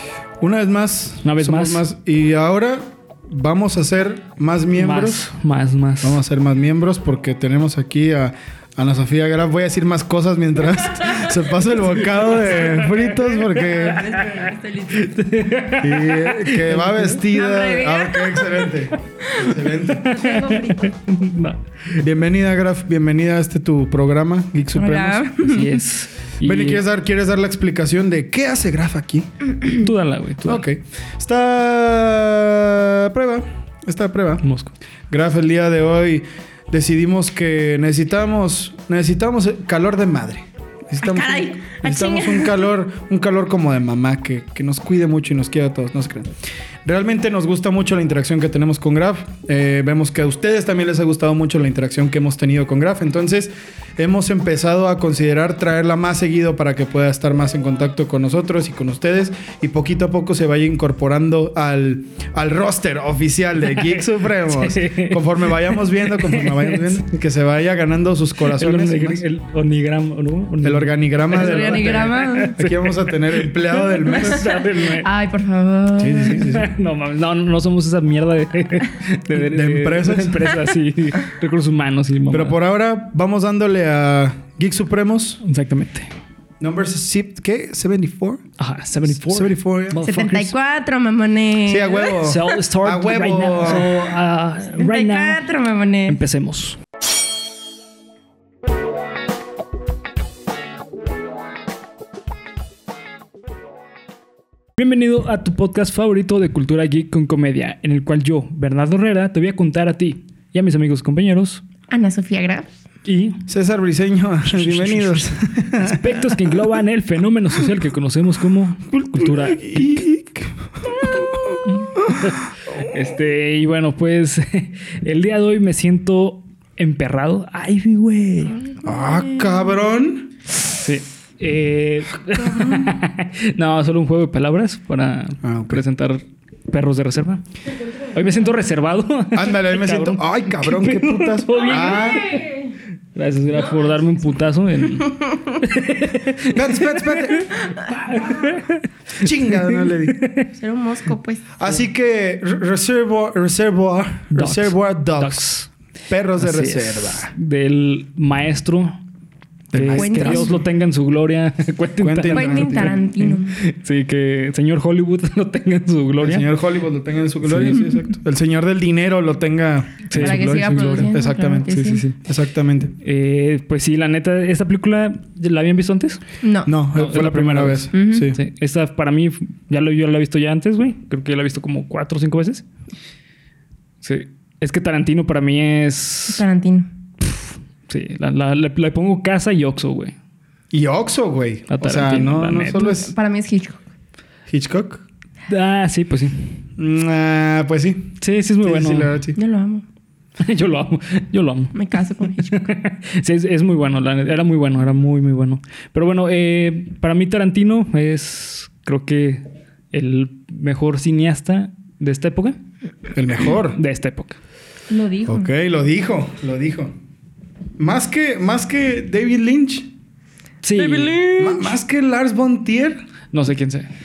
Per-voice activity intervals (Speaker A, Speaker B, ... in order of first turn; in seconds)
Speaker A: 0.4-5.2, 6.0-14.1, 15.8-20.1, 22.0-25.3, 26.4-29.3, 30.4-34.4, 35.1-46.3, 46.8-69.2, 70.6-74.5, 76.0-76.7, 79.3-80.5, 82.3-85.4, 86.6-88.4, 89.2-90.0, 91.7-94.0, 113.5-116.5, 118.9-122.8, 128.8-130.3, 132.5-132.9, 135.4-135.8, 139.3-142.4, 146.5-147.5, 149.1-150.2, 151.6-155.5, 156.1-157.3, 159.7-160.6, 162.0-163.0, 166.2-172.9, 176.7-178.4, 190.7-193.1, 194.5-195.0, 196.8-199.3, 213.1-213.8, 215.3-216.9, 217.8-219.9, 221.4-223.0
Speaker B: 1.2-1.8, 4.7-6.2, 12.0-17.2, 20.0-21.6, 25.4-26.8, 29.7-30.6, 34.4-34.7, 63.8-67.0, 68.4-75.1, 76.3-82.6, 85.4-86.1, 88.6-90.5, 92.2-95.4, 96.0-96.8, 104.8-111.6, 113.0-113.4, 114.5-120.0, 121.7-128.7, 130.8-137.4, 138.0-142.1, 143.1-150.5, 154.3-155.7, 156.4-159.0, 159.7-166.5, 167.4-167.9, 170.1-171.1, 171.7-172.2, 173.0-176.2, 176.9-182.7, 184.0-186.4, 187.2-190.2, 191.7-192.9, 195.5-196.5, 198.2-199.1, 200.4-212.6, 213.7-214.4, 220.6-221.4, 223.3-223.9
Speaker C: 13.6-15.1, 17.3-18.7, 20.1-20.9, 24.7-25.8, 41.0-42.6, 71.3-72.5, 74.5-76.5, 90.0-92.2, 94.8-96.2, 111.9-112.7, 141.7-142.7, 150.6-151.6, 159.9-160.6, 162.3-163.6, 170.2-172.0, 176.4-176.7, 177.9-178.3, 186.3-186.9, 192.7-193.8, 199.3-199.8, 201.7-202.5, 214.9-215.5, 220.8-221.6